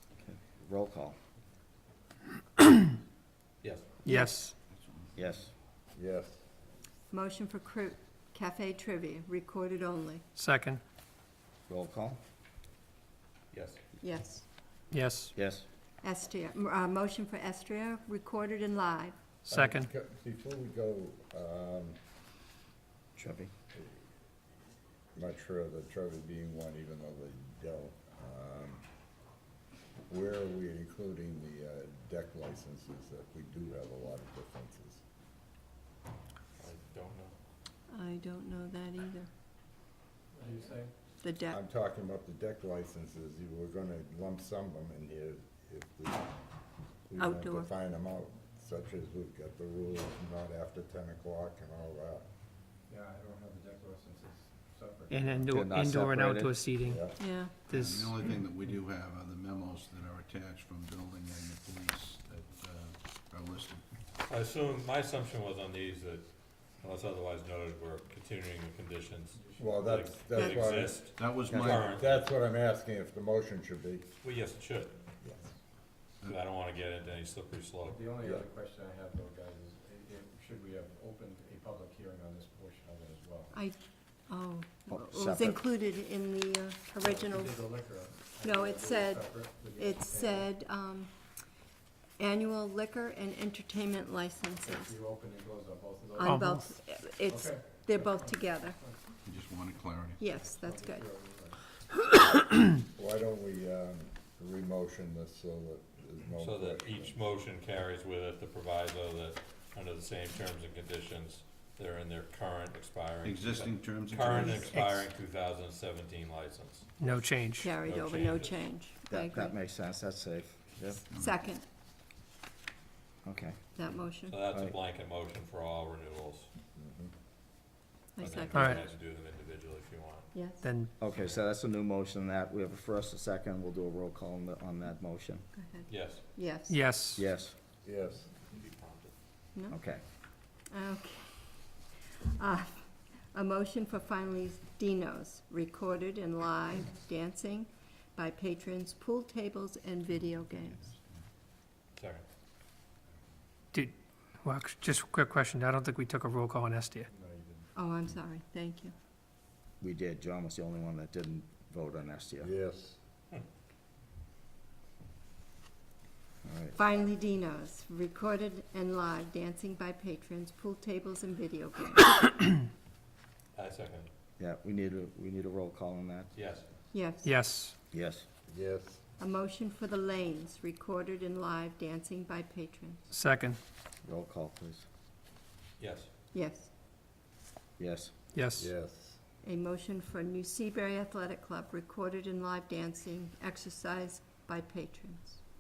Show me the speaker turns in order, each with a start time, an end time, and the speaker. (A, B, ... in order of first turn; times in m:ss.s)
0:00.2-0:01.2 A
0:03.6-0:04.0 B
0:04.1-0:04.4 C
0:04.1-0:04.6 D
0:04.7-0:05.1 E
0:05.2-0:05.5 A
0:06.0-0:06.4 F
0:07.1-0:10.2 C
0:10.4-0:10.8 D
0:11.7-0:12.2 A
0:13.5-0:13.8 B
0:14.0-0:14.5 C
0:14.9-0:15.3 D
0:15.4-0:15.7 A
0:16.0-0:19.2 C
0:19.5-0:19.9 D
0:19.5-0:22.0 F
0:23.2-0:23.5 A
0:25.2-0:28.8 F
0:30.1-0:35.0 F
0:36.6-0:37.4 B
0:37.9-0:39.3 C
0:40.3-0:40.9 G
0:41.2-0:41.6 C
0:41.5-0:46.3 F
0:47.1-0:52.3 F
0:47.2-0:47.7 C
0:52.9-0:55.4 G
0:55.1-0:58.2 D
0:55.5-0:56.6 A
0:56.8-0:57.2 F
0:57.2-0:57.5 C
0:57.6-1:03.9 E
1:04.3-1:12.3 B
1:09.4-1:09.8 G
1:09.6-1:14.1 F
1:10.4-1:10.6 C
1:11.2-1:12.0 E
1:14.2-1:15.0 B
1:16.2-1:18.1 B
1:17.9-1:23.5 G
1:23.5-1:27.7 C
1:24.9-1:25.6 A
1:27.0-1:30.5 G
1:28.4-1:31.1 C
1:32.2-1:35.0 C
1:34.6-1:36.4 G
1:36.2-1:38.8 C
1:36.2-1:36.8 D
1:36.9-1:39.0 G
1:39.2-1:40.3 E
1:40.2-1:41.1 C
1:40.3-1:41.8 G
1:42.9-1:47.2 F
1:46.4-1:57.0 B
1:53.2-1:55.0 E
1:54.6-1:55.0 D
1:57.0-1:57.8 D
1:57.6-1:59.5 C
1:57.8-1:58.7 B
1:59.1-2:01.0 A
2:01.1-2:01.4 E
2:01.1-2:01.6 C
2:03.2-2:04.8 A
2:03.8-2:04.4 C
2:04.3-2:06.5 B
2:06.8-2:07.1 F
2:08.2-2:08.8 C
2:08.2-2:10.3 B
2:08.5-2:08.8 D
2:10.3-2:10.7 C
2:10.6-2:10.9 D
2:11.0-2:15.5 A
2:15.6-2:16.8 C
2:15.9-2:16.3 B
2:16.7-2:17.2 D
2:17.2-2:17.6 A
2:17.8-2:18.3 F
2:18.4-2:19.2 B
2:19.6-2:20.0 C
2:19.7-2:20.0 A
2:20.7-2:31.0 C
2:32.0-2:32.2 B
2:33.7-2:37.1 D
2:37.1-2:37.7 G
2:37.8-2:38.9 C
2:39.8-2:42.5 A
2:42.4-2:43.0 F
2:46.4-2:46.8 A
2:46.8-2:52.2 C
2:53.6-2:54.1 B
2:54.4-2:56.3 A
2:56.3-2:56.7 B
2:56.9-2:57.3 C
2:57.2-2:57.8 D
2:57.9-2:58.3 A
2:58.5-2:59.0 F
2:59.2-3:03.1 C
3:03.1-3:03.6 D
3:04.0-3:04.9 A
3:05.8-3:06.1 B
3:06.3-3:06.7 C
3:07.8-3:08.1 A
3:08.3-3:08.7 D
3:08.6-3:09.2 F
3:09.4-3:15.4 C